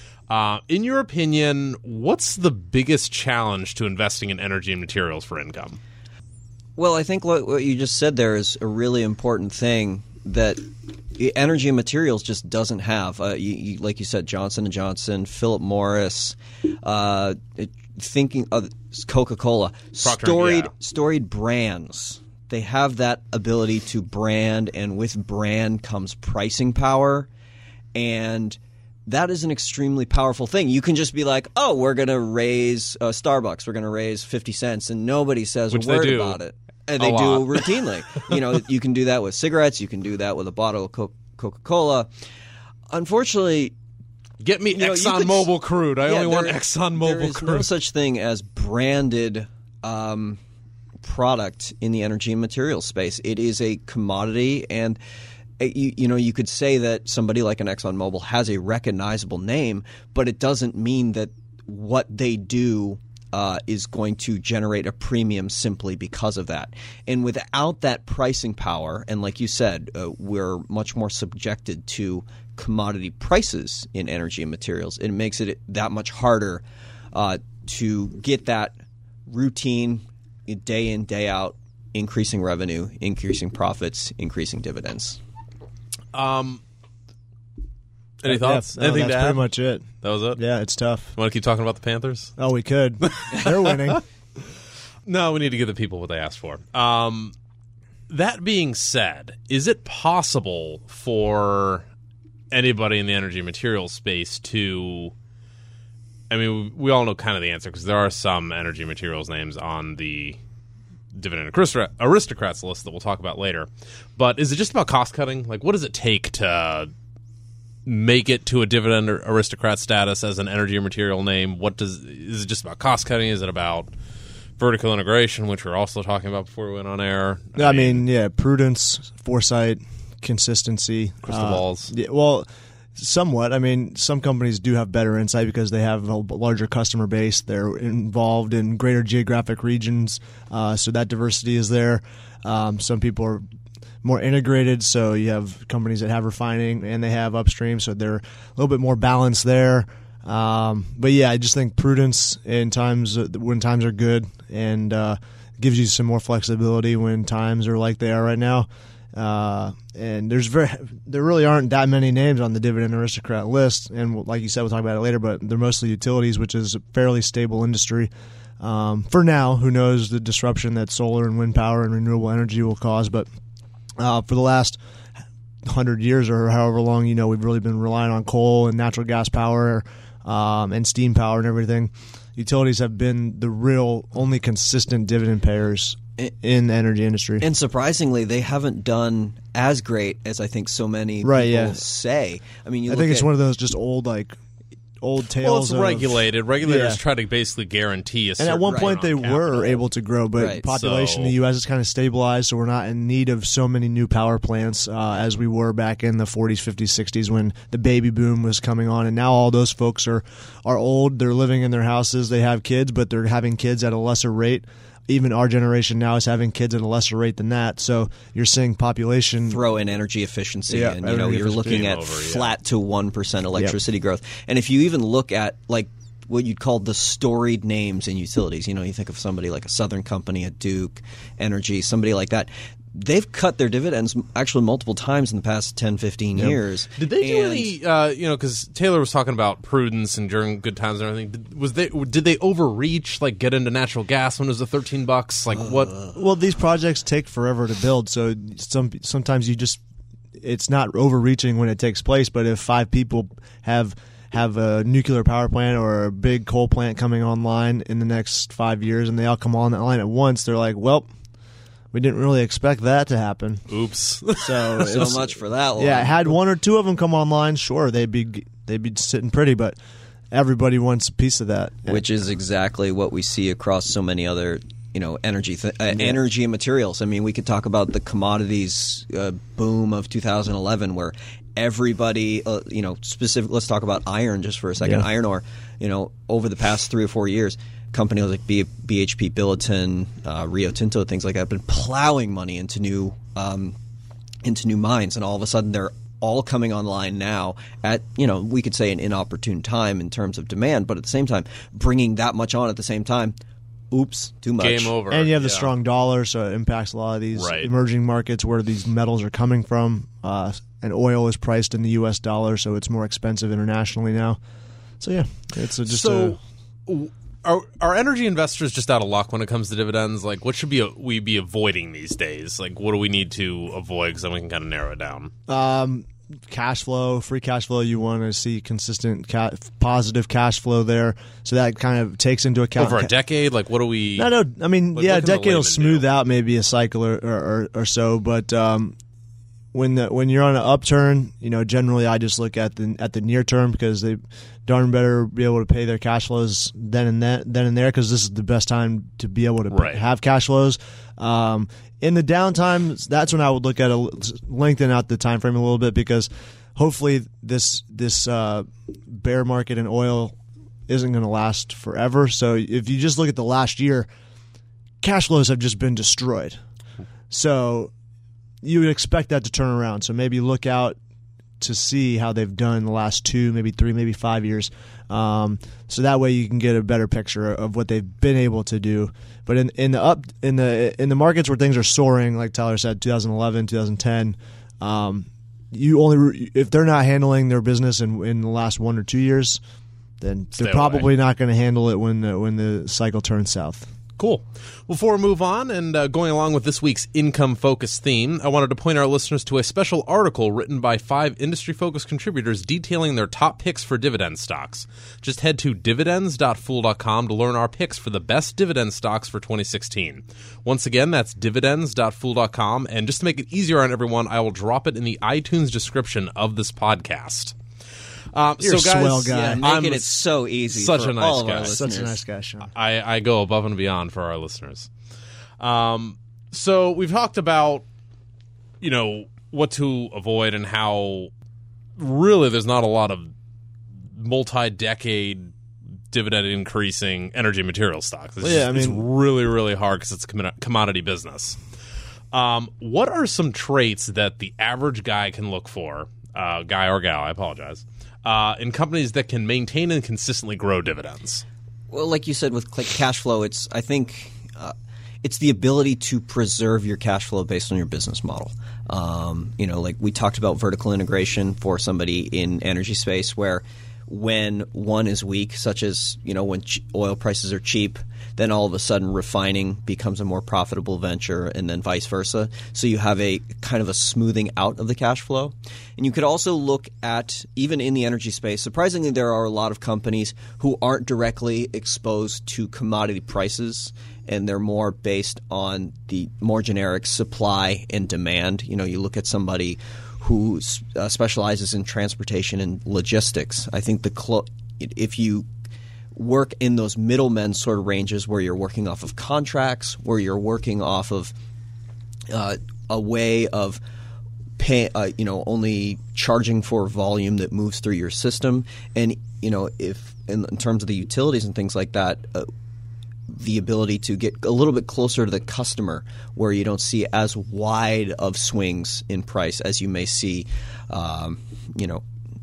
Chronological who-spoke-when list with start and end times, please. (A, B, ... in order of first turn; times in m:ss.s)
0:00.3-0:05.8 A
0:06.8-0:27.3 B
0:20.0-0:20.7 A
0:27.9-0:42.1 B
0:35.7-0:36.4 A
0:37.0-0:38.4 A
0:42.9-0:43.7 B
0:44.4-0:47.7 A
0:44.7-0:45.5 B
0:46.0-0:50.4 B
0:51.0-0:55.0 B
0:55.6-1:25.2 B
1:26.1-1:26.6 A
1:28.2-1:29.5 A
1:28.2-1:31.1 C
1:30.0-1:30.4 A
1:31.1-1:32.3 A
1:32.4-1:34.0 C
1:33.1-1:33.5 A
1:35.0-1:37.3 A
1:38.1-1:41.8 A
1:42.5-1:45.1 A
1:46.3-1:50.4 A
1:51.1-1:56.9 A
1:57.8-2:03.9 A
2:04.6-2:08.0 A
2:07.6-2:23.4 C
2:11.2-2:11.9 A
2:24.0-2:53.3 C
2:54.0-2:54.8 C
2:55.6-3:07.5 C
3:07.4-3:13.3 B
3:11.2-3:11.8 C
3:12.9-3:14.4 C
3:15.0-3:17.0 C
3:15.4-3:19.6 A
3:18.4-3:39.6 C
3:18.6-3:19.0 B
3:20.4-3:20.7 B
3:20.7-3:21.4 A
3:39.4-3:57.8 B
3:40.7-3:41.8 C
3:41.6-3:42.6 A
3:57.0-4:06.0 A
4:06.1-4:09.8 C
4:10.4-4:21.1 C
4:21.9-4:23.7 C
4:23.7-4:25.0 A
4:24.4-4:29.8 C
4:24.8-4:26.4 B
4:30.3-4:32.0 C
4:31.9-4:53.8 B
4:35.9-4:36.2 C
4:54.4-5:03.4 B
5:03.9-5:04.9 B
5:04.6-5:05.7 A
5:05.1-5:14.4 C
5:07.3-5:07.7 A
5:15.0-5:16.4 C
5:15.8-5:25.3 A
5:25.5-5:33.1 C
5:32.8-5:34.3 A
5:34.2-5:39.0 C
5:34.9-5:36.0 A
5:39.7-6:00.4 C
5:49.7-5:50.0 A
6:00.9-6:04.1 C
6:05.0-6:06.6 C
6:07.3-6:07.9 C
6:08.6-6:11.0 C
6:11.6-6:29.6 C
6:30.2-6:33.9 C
6:30.5-6:31.1 A
6:34.2-6:57.6 A
6:58.3-7:01.8 A
6:58.6-6:59.6 C
6:59.3-7:02.2 B
7:01.6-7:02.7 C
7:02.7-7:04.9 A
7:05.6-7:07.8 A
7:08.8-7:11.3 A
7:12.0-7:13.3 A
7:14.1-7:15.5 A
7:16.1-7:21.6 A
7:18.4-7:19.0 C
7:22.3-7:31.4 A
7:31.9-8:15.5 B
8:16.1-8:21.3 B
8:22.3-8:23.8 B
8:24.6-8:32.5 B
8:33.3-8:42.0 B